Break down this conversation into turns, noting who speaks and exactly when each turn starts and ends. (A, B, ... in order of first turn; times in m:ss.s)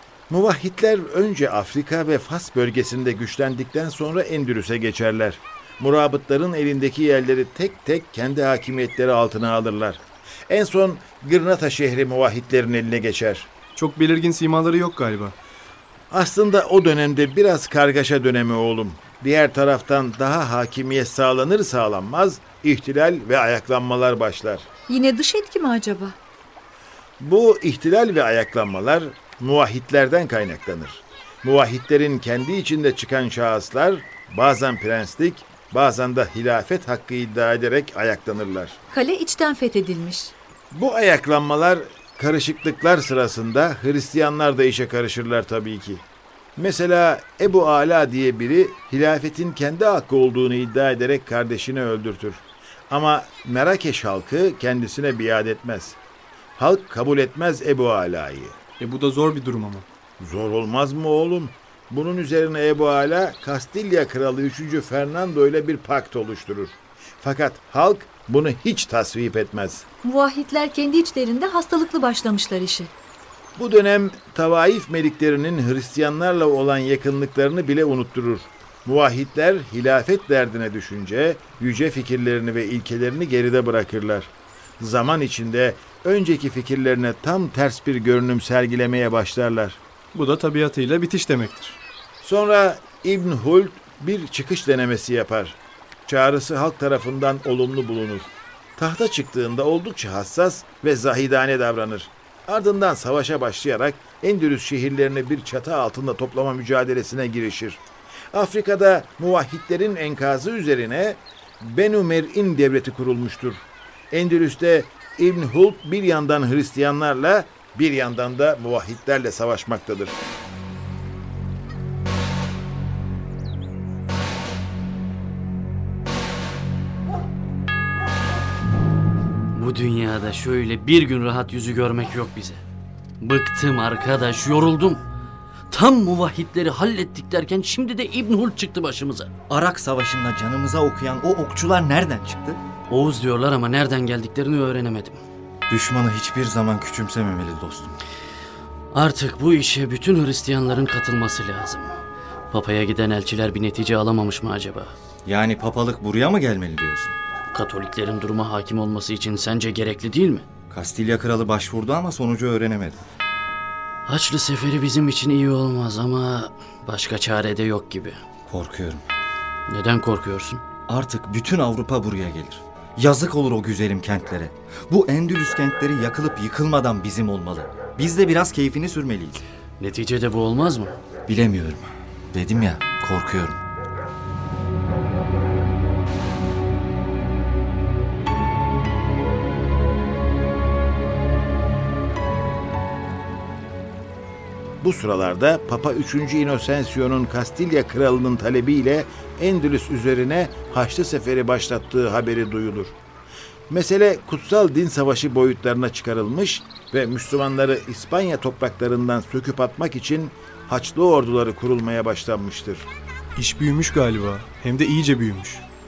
0:00.3-0:13.5 A
0:13.7-0:15.3 B
0:16.1-0:24.6 A
0:24.9-0:26.2 C
0:27.2-0:38.8 A
0:38.9-0:40.3 C
0:40.7-0:46.0 A
0:46.6-0:56.0 A
0:56.6-0:58.6 A
0:58.8-0:59.8 B
1:00.2-1:09.8 A
1:10.0-1:12.9 C
1:13.6-1:29.8 A
1:30.1-1:31.8 B
1:32.2-1:47.8 A
1:48.3-2:00.2 A
2:09.5-2:12.6 D
2:13.2-2:15.0 D
2:15.7-2:19.3 D
2:19.5-2:22.6 E
2:22.9-2:25.2 D
2:25.7-2:28.0 E
2:28.9-2:31.9 D
2:32.5-2:34.9 D
2:35.2-2:37.2 E
2:37.5-2:40.4 D
2:40.7-2:43.0 E
2:44.0-2:48.2 D
2:48.4-2:49.0 E
2:49.7-2:50.6 D
2:50.9-2:59.4 E
2:59.8-3:00.9 D
3:01.3-3:03.6 E
3:14.8-3:23.0 A
3:23.7-3:32.9 A
3:33.4-3:35.6 B